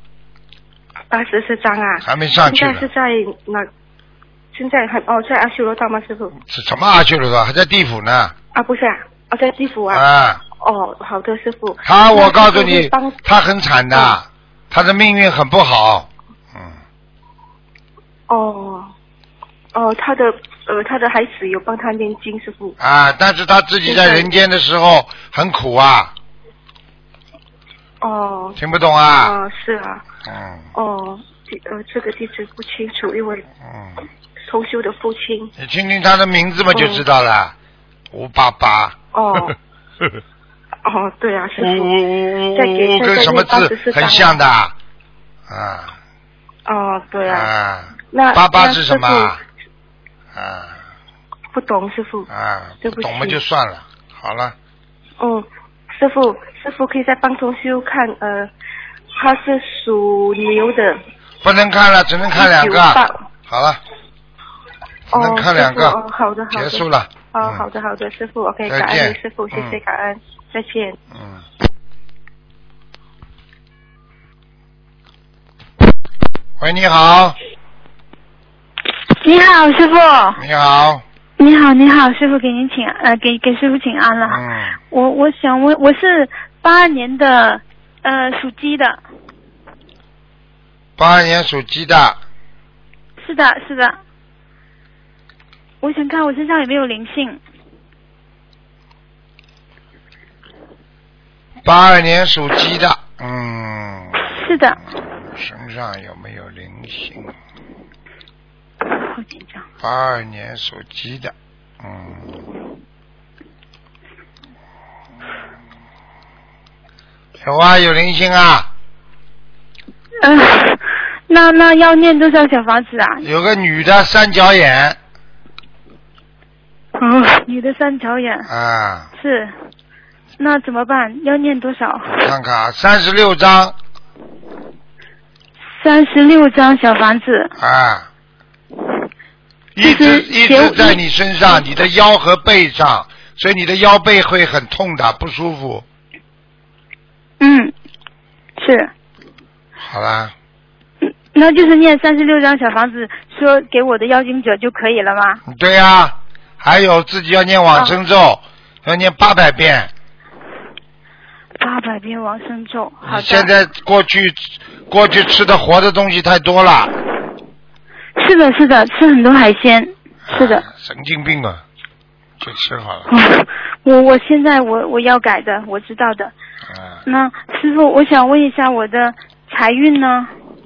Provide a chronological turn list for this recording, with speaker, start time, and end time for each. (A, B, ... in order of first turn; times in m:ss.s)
0:01.1-0:03.7 A
0:02.0-0:02.9 B
0:04.5-0:06.3 A
0:06.4-0:08.3 B
0:08.5-0:10.0 A
0:09.9-0:10.4 B
0:10.6-0:13.2 A
0:11.8-0:16.7 B
0:13.9-0:14.2 A
0:18.3-0:18.9 A
0:19.7-0:22.7 A
0:22.8-0:26.1 B
0:23.8-0:24.3 A
0:28.0-0:28.6 A
0:28.6-0:29.4 B
0:29.2-0:30.0 A
0:30.2-0:30.6 B
0:30.7-0:33.4 A
0:33.6-0:34.0 B
0:34.5-0:35.5 A
0:35.6-0:37.5 B
0:36.7-0:37.0 A
0:38.1-0:38.9 B
0:39.1-0:39.6 A
0:40.9-0:42.0 A
0:41.6-0:44.7 B
0:42.5-0:44.4 A
0:45.5-0:45.9 B
0:46.6-0:47.5 A
0:47.3-0:49.4 B
0:48.1-0:49.4 A
0:50.3-0:50.8 B
0:51.5-0:52.3 A
0:52.3-0:54.6 B
0:52.8-0:53.4 A
0:55.2-0:58.5 A
0:59.1-1:01.0 A
1:01.4-1:03.8 B
1:02.4-1:03.2 A
1:05.1-1:06.0 B
1:05.1-1:11.0 A
1:06.5-1:07.6 B
1:08.7-1:09.8 B
1:11.1-1:11.4 B
1:16.6-1:17.4 B
1:19.1-1:20.4 C
1:20.4-1:21.0 B
1:21.4-1:29.0 C
1:24.2-1:24.8 B
1:31.0-1:32.2 B
1:33.2-1:34.0 C
1:35.8-1:37.4 C
1:41.6-1:44.4 B
1:44.2-1:44.8 C
1:45.2-1:47.3 B
1:48.8-1:49.6 C
1:49.8-1:52.4 B
1:57.4-1:58.7 B
2:00.2-2:03.2 C
2:03.2-2:05.0 B
2:07.0-2:08.5 C
2:08.5-2:09.1 B
2:09.2-2:09.5 C
2:10.4-2:12.2 C
2:12.1-2:13.7 B
2:15.8-2:17.5 C
2:17.6-2:18.1 B
2:19.7-2:25.8 B
2:19.8-2:21.0 C
2:27.4-2:27.7 C
2:28.6-2:28.9 C
2:29.8-2:30.3 B
2:31.0-2:35.4 C
2:35.4-2:39.9 B
2:41.6-2:43.5 C
2:43.0-2:46.9 B
2:48.2-2:50.6 C
2:50.3-2:51.6 B
2:52.4-2:53.1 B
2:53.1-2:56.3 C
2:56.7-2:57.0 B
2:57.1-3:00.3 C